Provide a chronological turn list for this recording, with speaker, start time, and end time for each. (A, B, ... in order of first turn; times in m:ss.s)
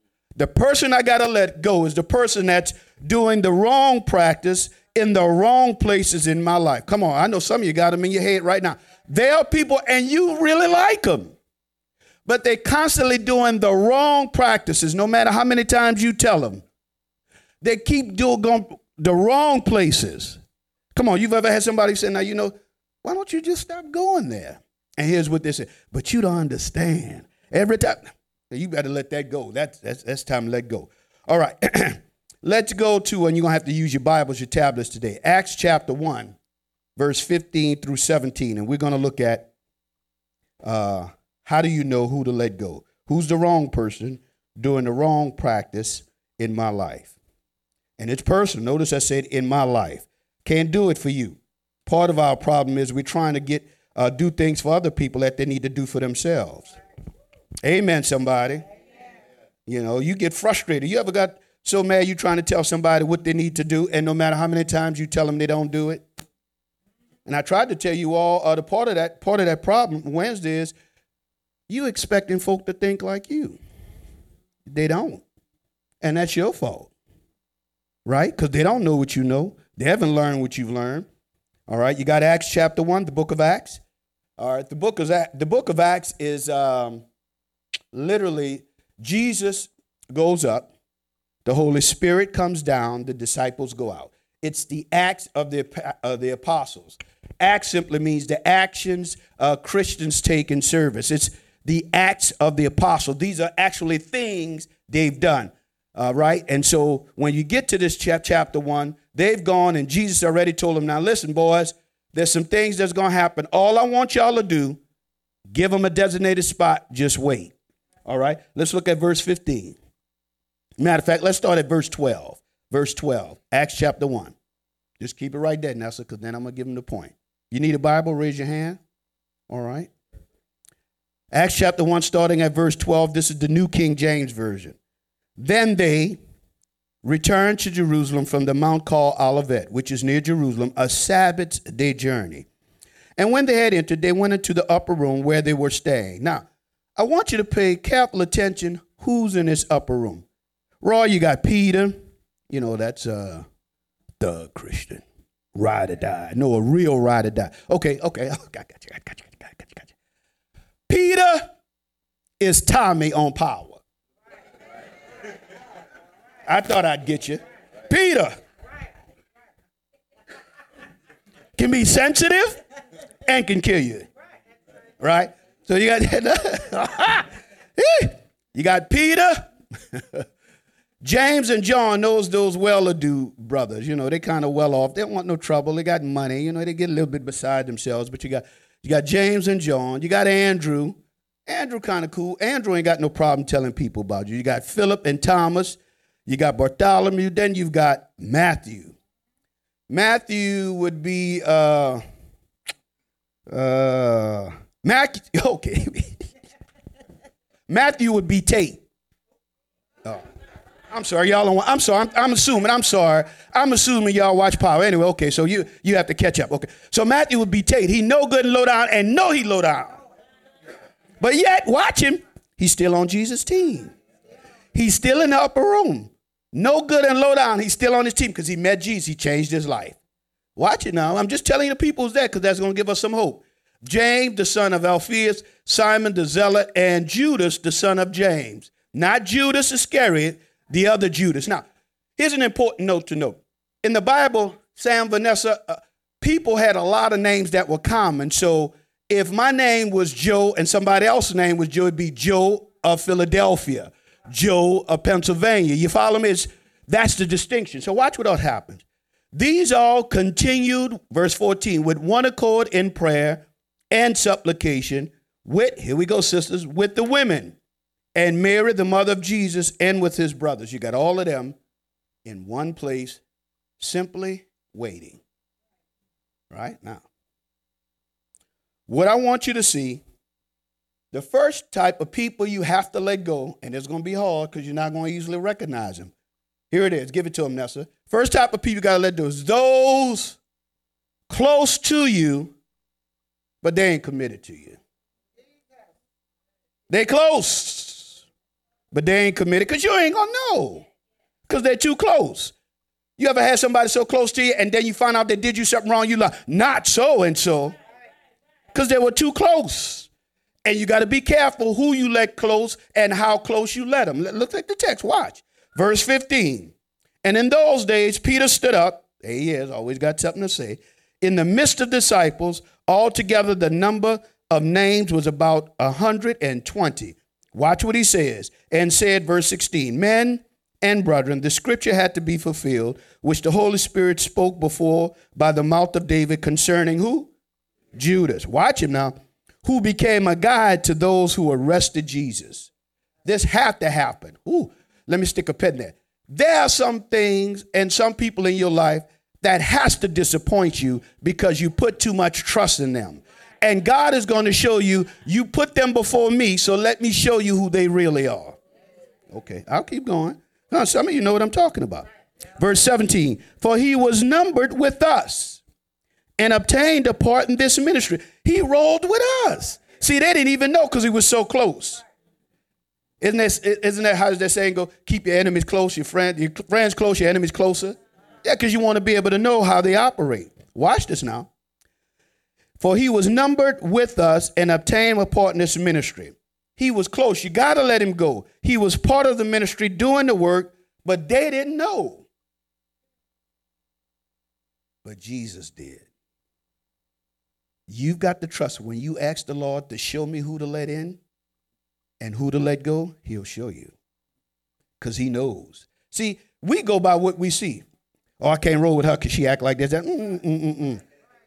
0:00.4-0:11.4 A
0:12.2-0:16.6 A
0:17.6-0:20.4 A
0:21.0-0:36.4 A
0:37.0-0:39.5 A
0:40.6-0:47.1 A
0:48.0-0:56.7 A
0:57.6-0:58.6 A
0:59.6-1:06.0 A
1:07.2-1:10.7 A
1:11.7-1:13.6 A
1:14.6-1:15.2 A
1:16.0-1:16.9 A
1:18.1-1:21.1 A
1:21.7-1:23.8 A
1:24.4-1:27.0 A
1:27.9-1:30.7 A
1:31.4-1:54.8 A
1:55.5-1:57.5 A
1:58.1-1:59.8 A
2:00.8-2:04.4 A
2:05.0-2:08.8 A
2:09.5-2:09.9 A
2:11.3-2:14.8 A
2:15.4-2:16.2 A
2:17.0-2:22.5 A
2:23.2-2:30.2 A
2:30.8-2:33.4 A
2:34.2-2:35.0 A
2:35.5-2:39.9 A
2:40.9-2:41.5 A
2:42.4-2:43.8 A
2:46.5-2:48.4 A
2:51.6-2:52.6 A
2:53.2-2:54.1 A
2:55.0-3:00.2 A
3:01.0-3:19.0 A
3:19.9-3:22.0 A
3:23.5-3:26.2 A
3:27.7-3:28.8 A
3:30.9-3:40.0 A
3:41.2-3:43.9 A
3:44.7-3:50.0 A
3:50.6-4:01.6 A
4:02.2-4:27.6 A
4:28.1-4:31.6 A
4:32.2-4:33.2 A
4:33.8-4:35.2 A
4:36.5-4:37.0 A
4:38.9-4:40.0 A
4:41.1-4:46.1 A
4:46.7-4:50.4 A
4:51.3-4:52.6 A
4:53.6-4:54.8 A
4:56.9-4:58.2 A
4:58.9-5:00.9 A
5:01.5-5:02.5 A
5:03.2-5:07.8 A
5:08.7-5:10.1 A
5:10.6-5:37.3 A
5:37.9-5:42.7 A
5:43.2-5:58.6 A
5:59.3-6:02.1 A
6:02.6-6:05.6 A
6:06.4-6:12.0 A
6:13.2-6:21.5 A
6:22.8-6:32.2 A
6:35.0-6:36.0 A
6:37.9-6:41.2 A
6:42.2-6:43.9 A
6:45.0-6:47.8 A
6:48.4-6:51.0 A